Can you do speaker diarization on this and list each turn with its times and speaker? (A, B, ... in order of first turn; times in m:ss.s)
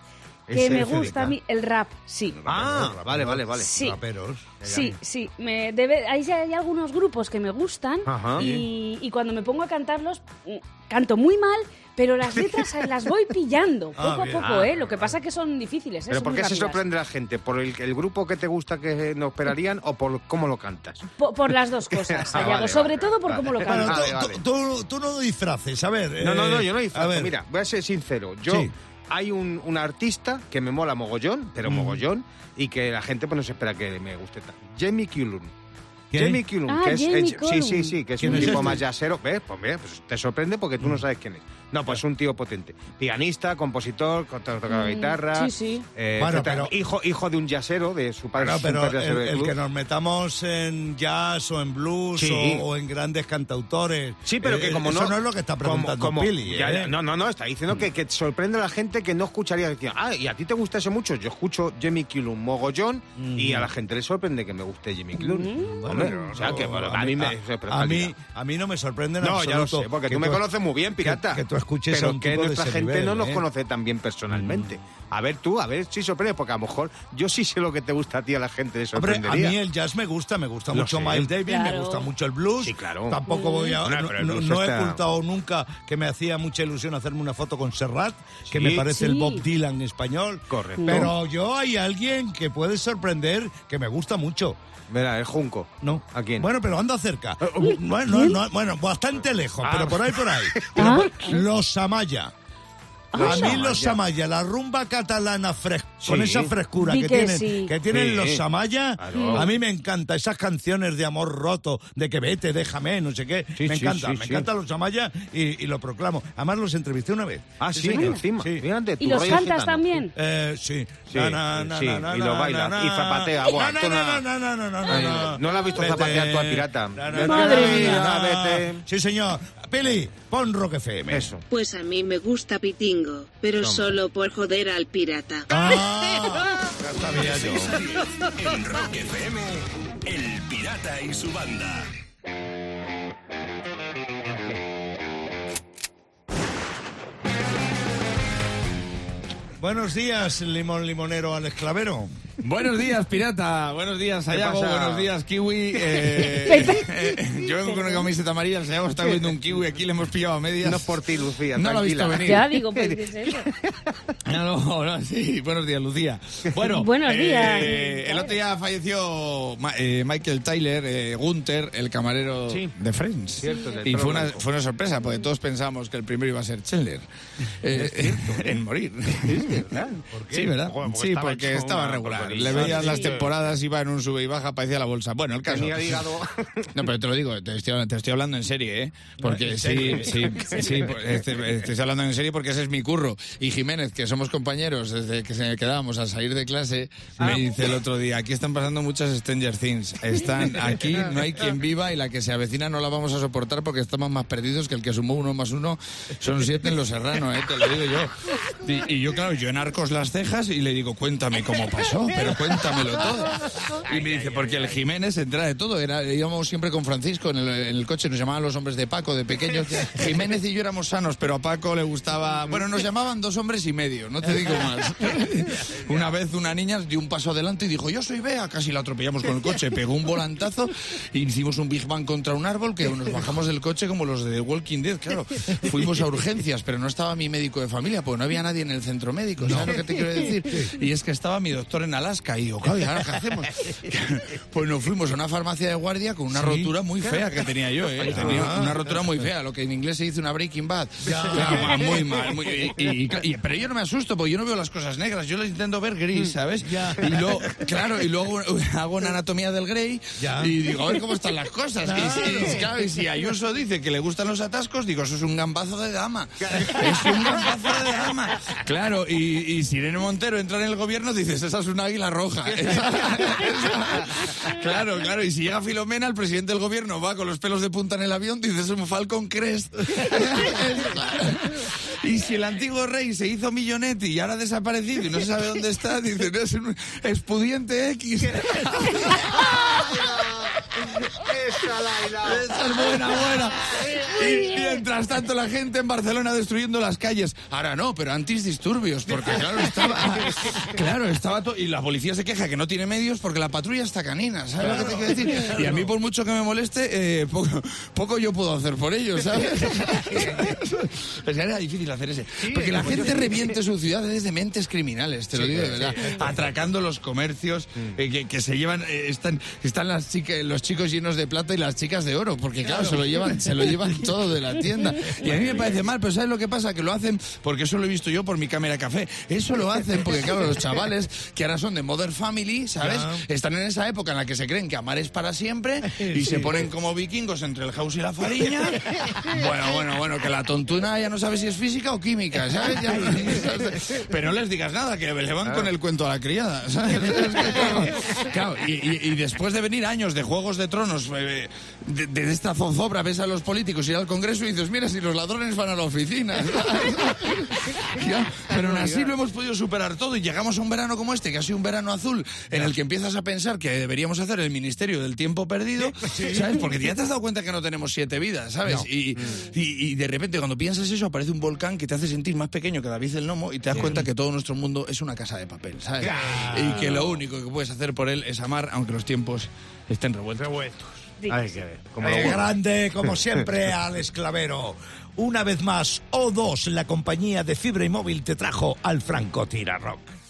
0:00.5-0:01.2 A
0:00.5-0:02.4 B
0:00.5-0:01.4 C
0:02.3-0:04.6 C
0:02.5-0:03.7 A
0:03.6-0:04.0 B
0:04.6-0:05.0 A
0:04.6-0:16.8 B
0:08.1-0:08.5 A
0:08.4-0:08.7 C
0:12.3-0:12.6 A
0:14.0-0:14.7 C
0:14.4-0:14.8 A
0:16.1-0:21.0 A
0:21.2-0:24.1 B
0:21.9-0:24.4 A
0:23.6-0:27.3 C
0:26.2-0:35.5 A
0:28.5-0:28.7 C
0:31.6-0:32.0 C
0:36.1-0:36.4 C
0:36.1-0:49.6 A
0:36.7-0:38.8 B
0:38.2-0:38.8 C
0:44.7-0:45.8 B
0:46.2-0:46.7 C
0:48.4-0:56.9 C
0:52.2-0:52.6 A
0:54.3-1:08.1 A
1:03.2-1:03.7 C
1:05.2-1:05.8 B
1:05.6-1:10.4 C
1:09.2-1:19.6 A
1:11.0-1:13.5 C
1:14.3-1:14.7 C
1:18.9-1:34.6 C
1:20.7-1:21.3 A
1:21.5-1:22.1 B
1:22.6-1:23.2 A
1:23.3-1:23.8 B
1:23.8-1:25.0 A
1:28.5-1:28.9 A
1:28.9-1:29.4 B
1:30.5-1:31.1 A
1:30.8-1:31.1 B
1:34.9-1:36.5 A
1:35.8-1:42.3 C
1:37.4-1:37.8 A
1:38.1-1:38.4 B
1:39.6-1:41.1 A
1:40.8-1:41.4 B
1:43.1-1:43.6 B
1:43.2-1:44.0 A
1:43.2-1:59.4 C
1:46.0-1:46.5 A
1:46.8-1:47.7 B
1:47.9-1:48.4 A
1:49.0-1:49.5 A
1:49.1-1:49.5 B
1:53.6-1:54.4 A
1:57.6-2:00.0 A
1:57.9-1:58.2 B
1:59.0-2:00.1 B
2:00.1-2:11.3 C
2:01.1-2:04.2 A
2:04.8-2:08.8 A
2:07.2-2:08.0 B
2:11.1-2:11.4 A
2:11.5-2:15.5 D
2:13.6-2:13.9 A
2:15.5-2:17.8 C
2:17.1-2:21.9 E
2:29.6-2:32.1 C
2:32.4-2:42.5 F
2:34.3-2:35.1 A
2:35.9-2:36.6 A
2:36.5-2:38.1 B
2:39.0-2:39.3 A
2:40.6-2:44.1 A
2:42.2-2:43.5 B
2:44.3-2:57.0 F
2:46.7-2:48.3 B
2:52.5-2:52.7 A
2:53.4-2:54.4 A
2:57.6-2:59.7 F
2:57.8-2:58.1 C
2:57.8-2:58.4 A
2:59.3-3:00.0 A
3:00.1-3:00.5 C
3:00.3-3:06.0 F
3:00.6-3:03.4 A
3:02.8-3:03.1 B
3:05.5-3:06.7 A
3:06.7-4:50.1 F
3:09.2-3:10.6 C
3:59.4-3:59.8 C
4:00.4-4:00.7 C
4:06.3-4:06.7 C
4:08.0-4:08.5 A
4:08.0-4:09.0 C
4:11.0-4:11.9 C
4:11.3-4:12.0 A
4:16.6-4:17.2 C
4:20.2-4:20.5 C
4:21.8-4:22.6 C
4:26.4-4:27.4 A
4:26.7-4:27.5 C
4:32.5-4:33.5 A
4:49.5-4:50.5 A
4:51.2-4:52.6 A
4:52.2-6:21.1 F
4:53.7-4:54.2 A
4:59.1-5:00.6 A
5:04.6-5:05.9 C
5:04.6-5:05.8 A
5:12.4-5:13.6 A
5:15.3-5:16.4 C
5:15.9-5:16.3 A
5:22.6-5:23.0 A
5:25.2-5:25.4 C
5:32.8-5:33.3 C
5:35.9-5:36.6 C
5:58.5-5:59.1 A
6:06.0-6:06.6 C
6:08.6-6:08.9 C
6:13.7-6:14.0 A
6:16.0-6:17.1 C
6:16.1-6:17.0 A
6:21.2-6:21.6 B
6:21.3-6:22.5 A
6:22.0-6:30.1 C